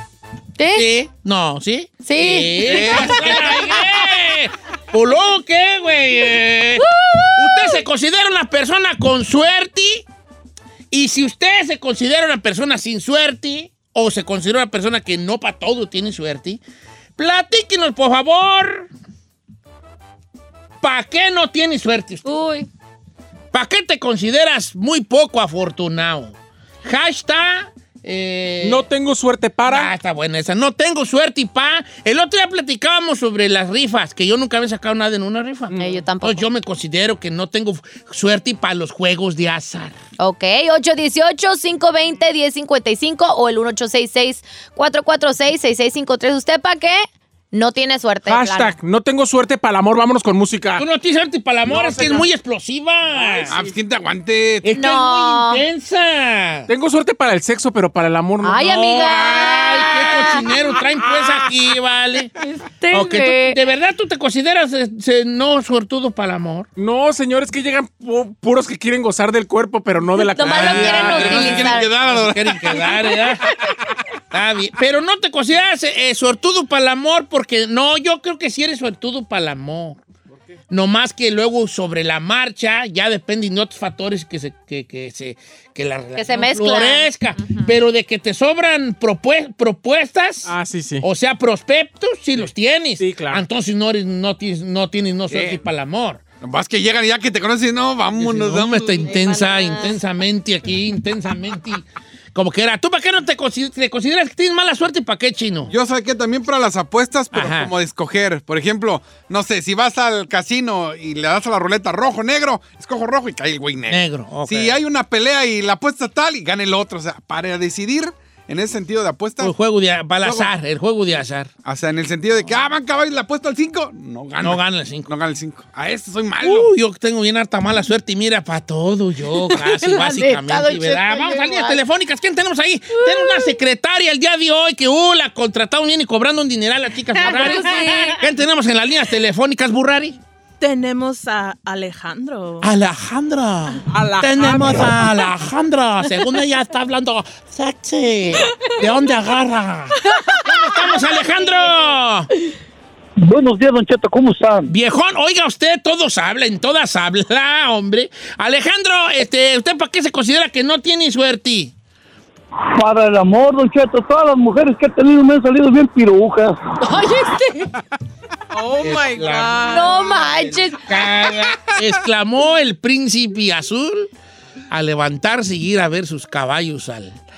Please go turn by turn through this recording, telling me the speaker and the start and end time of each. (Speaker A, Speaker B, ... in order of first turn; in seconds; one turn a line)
Speaker A: 0.6-0.8
Speaker B: 0.7-10.0
Speaker A: 2.0-3.5
Speaker C: 2.6-4.1
Speaker A: 6.8-7.8
Speaker B: 10.9-16.6
Speaker B: 17.2-18.9
Speaker B: 20.8-22.3
Speaker A: 22.2-22.7
Speaker B: 23.5-28.8
Speaker D: 28.6-29.9
Speaker B: 29.7-40.0
Speaker D: 35.7-36.0
Speaker A: 35.7-36.4
Speaker A: 40.2-48.7
Speaker D: 48.2-50.8
Speaker B: 50.7-53.5
Speaker D: 51.7-52.3
Speaker D: 53.1-53.7
Speaker C: 53.5-54.7
Speaker B: 54.6-56.7
Speaker A: 54.7-55.6
Speaker D: 56.7-59.4
Speaker A: 58.4-60.5
Speaker B: 58.6-62.4
Speaker A: 62.4-63.6
Speaker B: 62.9-66.7
Speaker D: 66.8-71.6
Speaker A: 70.2-71.9
Speaker C: 70.4-73.9
Speaker B: 70.8-73.5
Speaker B: 74.3-80.0
Speaker B: 80.7-96.2
Speaker A: 86.2-87.6
Speaker D: 90.5-91.0
Speaker D: 93.0-93.4
Speaker C: 95.3-95.6
Speaker C: 96.4-99.1
Speaker B: 98.2-105.7
Speaker A: 99.1-99.9
Speaker C: 105.7-119.5
Speaker B: 107.3-107.7
Speaker B: 113.9-114.8
Speaker B: 119.4-121.5
Speaker C: 120.2-120.5
Speaker C: 121.6-126.7
Speaker B: 124.4-125.1
Speaker B: 126.4-140.2
Speaker A: 129.3-131.8
Speaker A: 132.9-133.6
Speaker A: 137.1-138.2
Speaker E: 140.6-142.7
Speaker B: 142.6-152.3
Speaker D: 143.9-145.1
Speaker F: 153.2-154.7
Speaker B: 154.7-161.7
Speaker F: 162.7-166.6
Speaker A: 166.8-167.7
Speaker E: 168.5-170.1
Speaker B: 168.8-174.1
Speaker A: 169.7-170.8
Speaker B: 174.7-177.2